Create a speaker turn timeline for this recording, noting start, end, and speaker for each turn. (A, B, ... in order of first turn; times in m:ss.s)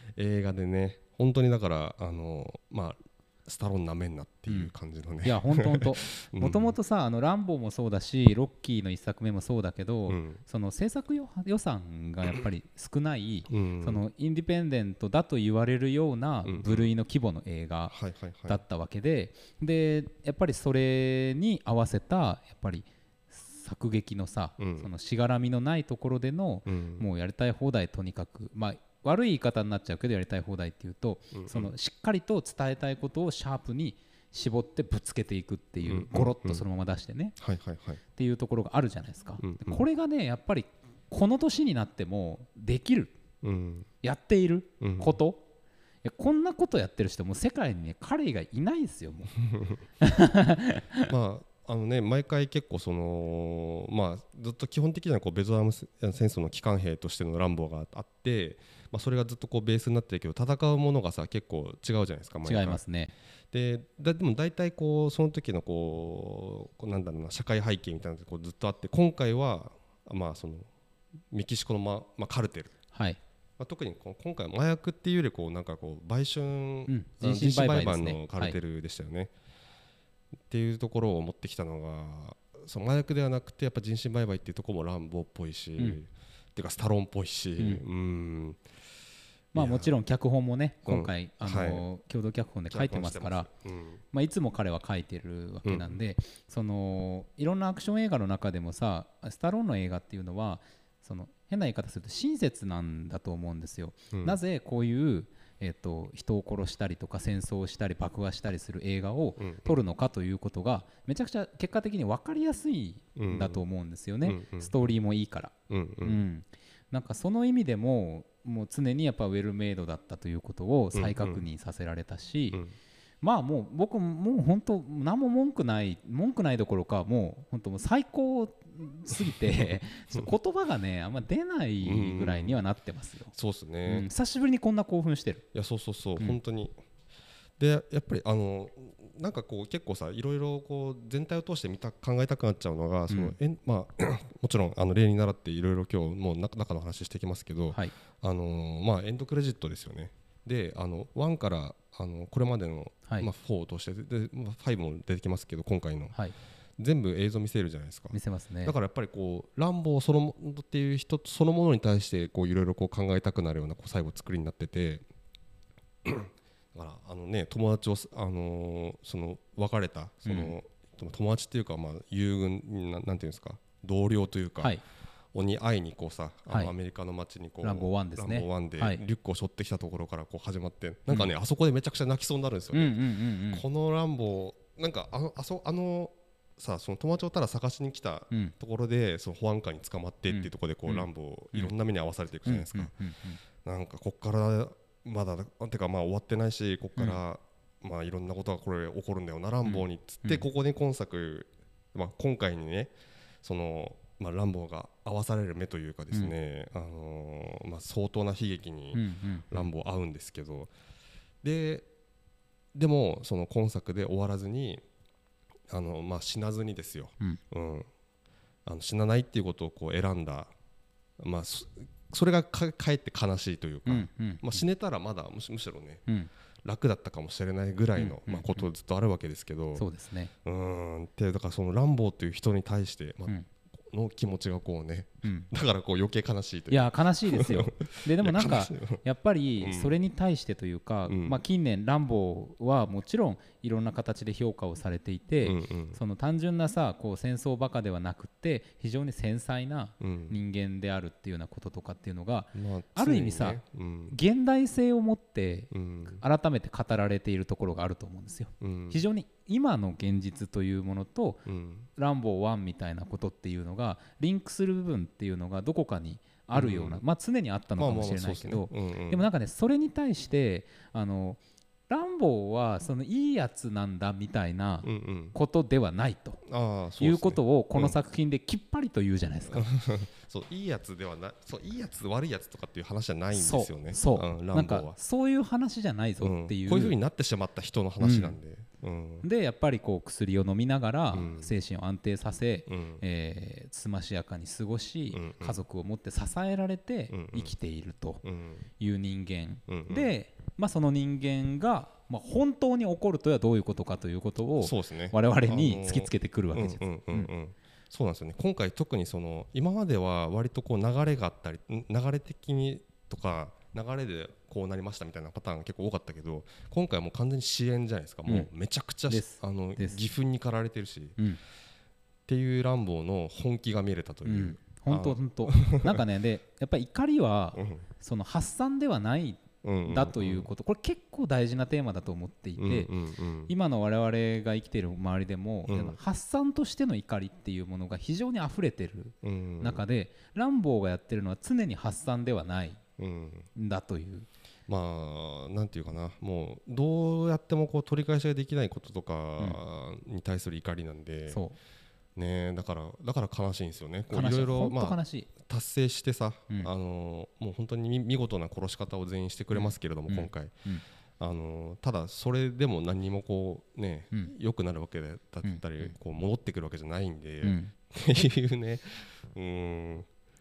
0:00.2-0:06.7 A
0:05.2-0:17.9 B
0:10.1-0:10.4 A
0:13.5-0:14.0 A
0:16.4-0:16.9 A
0:17.9-0:18.6 A
0:18.5-0:37.4 B
0:24.6-0:24.9 A
0:26.6-0:27.0 A
0:31.3-0:31.7 A
0:35.8-0:36.6 A
0:37.4-0:38.0 A
0:38.1-0:43.1 B
0:39.4-0:39.8 A
0:43.4-0:43.9 A
0:44.0-0:45.4 B
0:44.8-0:45.1 A
0:46.0-0:49.4 B
0:49.5-0:49.8 A
0:50.0-0:51.1 B
0:51.0-1:02.8 A
1:02.4-1:03.1 B
1:03.5-1:10.7 A
1:11.3-1:12.7 A
1:12.9-1:13.2 B
1:13.6-1:19.3 A
1:16.9-1:18.6 B
1:20.5-1:28.6 A
1:29.5-1:33.5 B
1:29.5-1:29.9 A
1:30.9-1:31.8 A
1:32.7-1:34.0 A
1:34.1-2:02.6 B
1:35.6-1:36.0 A
1:44.1-1:44.4 A
1:49.4-1:49.8 A
1:53.2-1:53.6 A
1:54.2-1:54.7 A
1:55.7-1:56.2 A
2:00.9-2:01.4 A
2:03.2-2:13.3 B
2:11.8-2:12.6 A
2:13.3-2:14.1 A
2:13.8-2:15.4 B
2:15.5-2:16.7 A
2:17.6-2:36.1 A
2:23.1-2:23.4 B
2:36.8-2:45.0 A
2:38.1-2:38.7 B
2:46.0-2:54.7 A
2:50.2-2:50.5 B
2:55.3-3:03.0 A
2:57.6-2:59.0 B
3:02.7-3:03.6 B
3:03.5-3:12.9 A
3:10.3-3:11.7 B
3:12.4-3:13.4 B
3:13.6-3:22.9 A
3:19.6-3:20.4 B
3:23.4-3:30.7 A
3:28.9-3:29.6 B
3:31.4-3:31.9 A
3:32.7-3:34.8 A
3:35.7-3:37.9 A
3:38.6-3:40.5 A
3:41.2-3:46.0 A
3:43.8-3:44.6 B
3:46.6-3:49.8 A
3:48.0-3:48.7 B
3:49.7-3:50.3 B
3:50.4-3:53.3 A
3:53.9-3:59.0 A
3:55.2-3:55.5 B
3:56.7-4:21.4 B
3:59.6-3:59.9 A
4:01.1-4:01.4 A
4:05.4-4:06.0 A
4:10.0-4:10.4 A
4:12.5-4:14.2 A
4:15.7-4:16.2 A
4:18.6-4:19.0 A
4:21.4-4:21.9 A
4:22.0-4:36.4 B
4:26.5-4:27.0 A
4:27.8-4:29.2 A
4:34.8-4:35.4 A
4:36.4-4:38.0 A
4:37.0-4:39.7 B
4:39.5-4:45.0 A
4:43.3-4:47.0 B
4:46.2-4:49.2 A
4:48.0-4:48.4 B
4:49.2-4:58.2 B
4:51.1-4:51.5 A
4:52.7-4:53.0 A
4:55.1-4:55.6 A
4:57.1-4:57.5 A
4:58.2-4:58.6 A
4:58.8-5:07.3 B
4:59.7-5:00.1 A
5:04.6-5:21.2 A
5:19.1-5:20.1 B
5:22.3-5:26.0 A
5:24.2-5:32.9 B
5:27.6-5:27.8 A
5:29.6-5:30.5 A
5:32.6-5:33.5 A
5:33.5-5:42.8 B
5:35.7-5:36.0 A
5:39.2-5:39.8 A
5:43.0-5:43.5 A
5:43.5-5:44.3 B
5:44.7-5:51.4 A
5:51.3-5:51.6 B
5:52.2-6:00.5 A
5:54.1-5:55.3 B
5:59.5-6:00.8 B
6:01.2-6:10.1 A
6:05.4-6:05.9 B
6:07.4-6:07.7 B